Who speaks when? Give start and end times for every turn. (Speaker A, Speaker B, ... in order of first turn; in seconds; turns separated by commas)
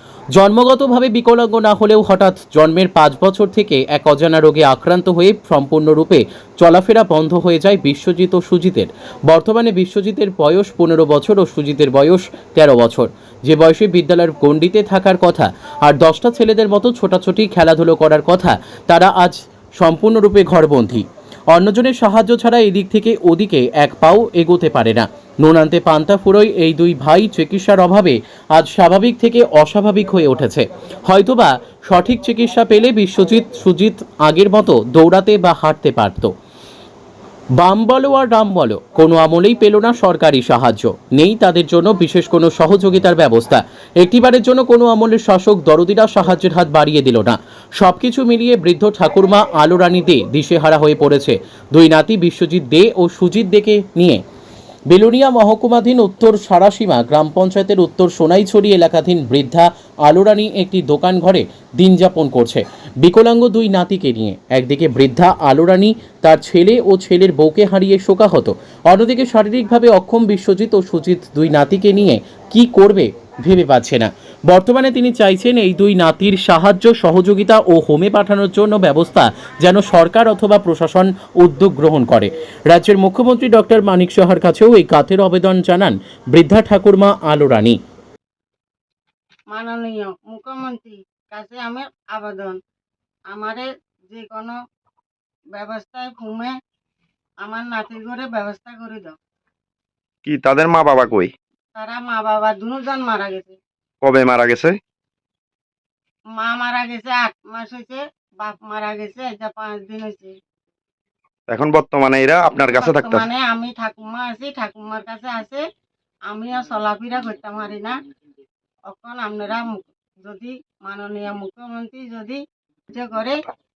Speaker A: 0.3-36.3, Speaker A: 37.5-54.2, Speaker A: 54.9-87.8, Speaker B: 89.5-92.6, Speaker B: 93.3-94.5, Speaker B: 95.5-96.5, Speaker B: 97.4-99.2, Speaker C: 100.2-101.3, Speaker B: 101.7-103.6, Speaker C: 104.0-104.8, Speaker B: 106.3-110.3, Speaker C: 111.5-113.2, Speaker B: 112.7-115.6, Speaker B: 116.3-118.0, Speaker B: 118.9-123.4